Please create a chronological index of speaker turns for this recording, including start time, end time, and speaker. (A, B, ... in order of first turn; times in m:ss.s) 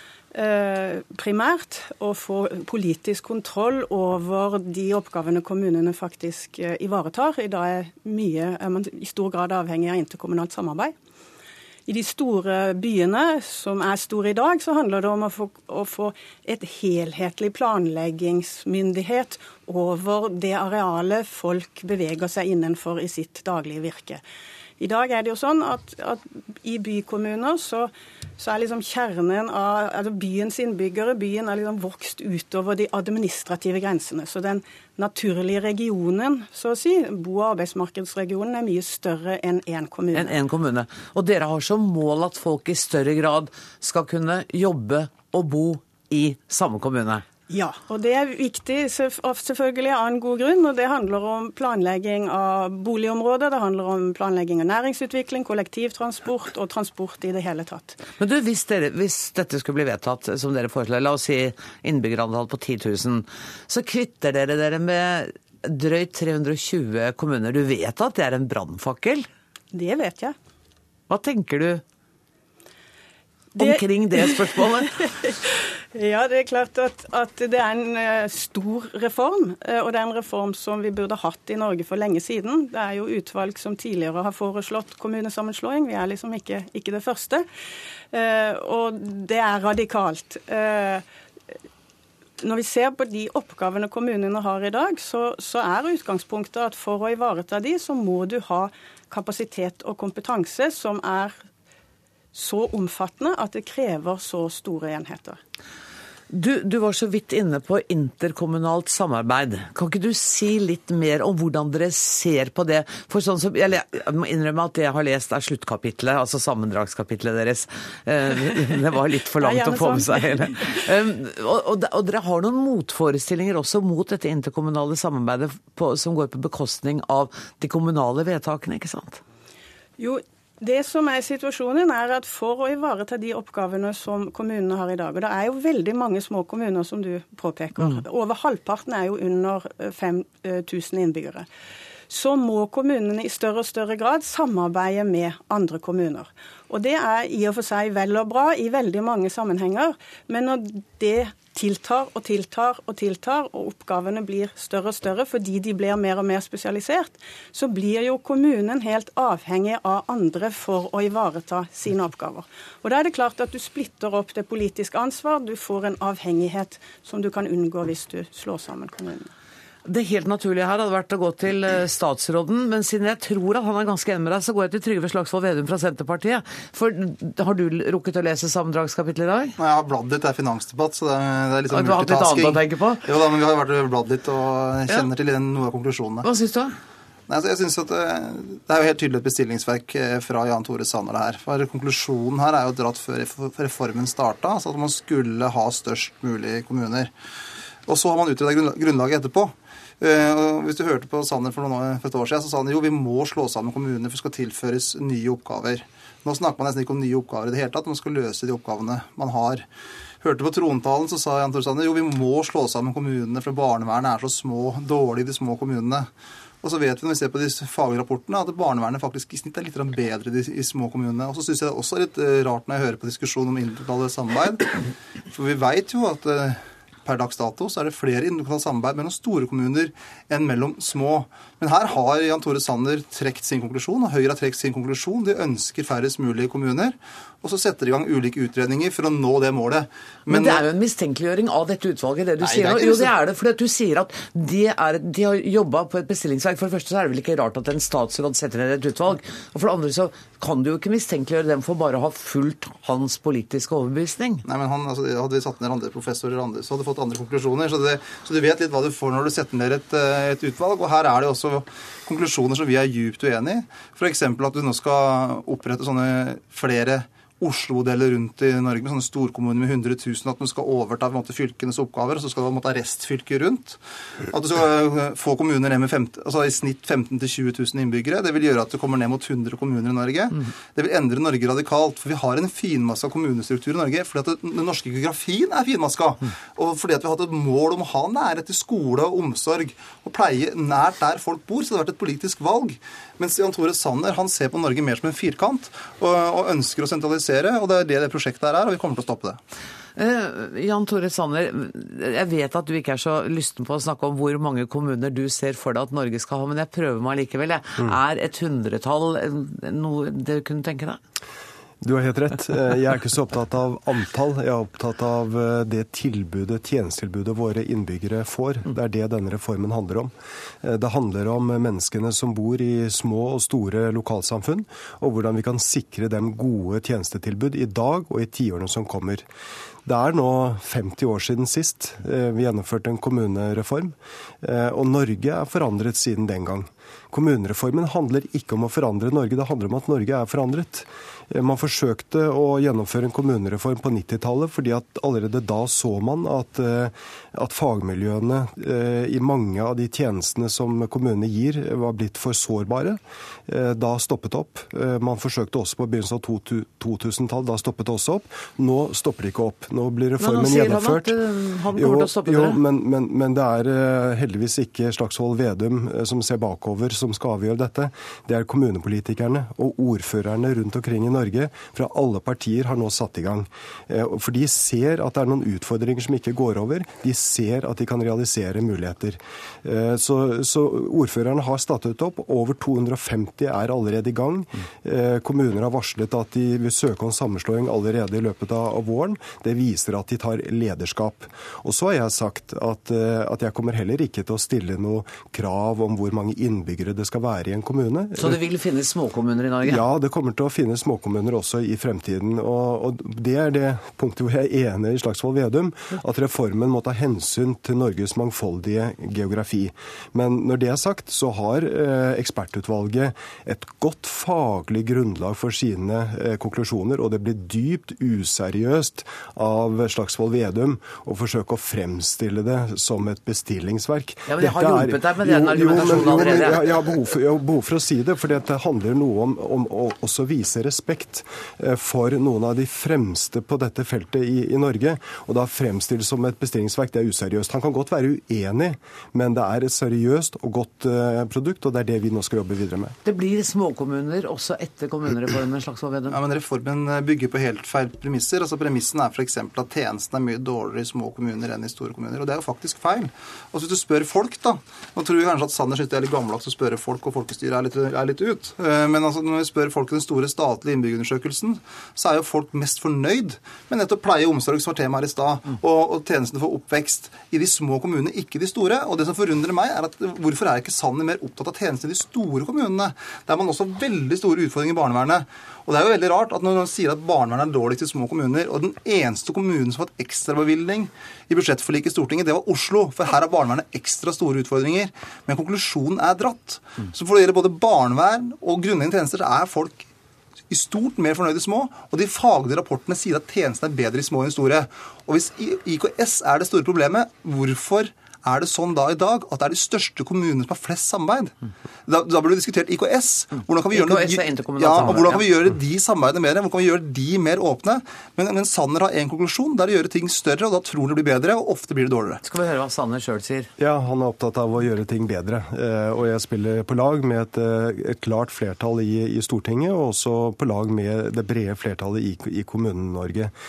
0:00.3-0:10.9 A
0:11.9-0:24.2 A
0:24.8-0:40.3 A
0:40.1-0:47.2 B
0:47.5-0:58.0 A
0:58.2-1:09.3 B
1:09.7-1:10.3 A
1:11.1-1:11.8 B
1:13.5-1:27.4 A
1:13.6-1:15.0 B
1:28.1-1:31.0 A
1:32.4-1:41.4 A
1:42.3-1:45.4 A
1:46.3-2:09.2 B
1:59.4-2:00.8 A
2:10.0-2:21.5 A
2:22.1-2:49.3 A
2:49.8-2:59.5 B
2:59.6-3:06.3 C
3:01.7-3:03.0 B
3:06.2-3:06.7 B
3:07.3-3:17.1 C
3:17.9-3:29.6 C
3:30.2-3:36.1 C
3:36.6-3:44.7 C
3:45.3-4:00.7 C
4:00.3-4:14.4 B
4:02.4-4:03.1 C
4:14.4-4:59.4 C
5:00.0-5:11.0 B
5:11.8-5:29.2 D
5:29.8-6:01.2 D
6:00.2-6:02.6 B
6:01.7-6:38.4 D
6:38.2-6:39.8 B
6:39.6-7:23.0 D
7:04.3-7:06.7 B
7:23.0-7:26.2 B
7:26.1-8:09.9 C
8:10.5-8:21.3 C
8:21.9-8:32.2 C
8:23.7-8:25.2 B
8:32.2-8:33.5 B
8:33.6-8:43.3 D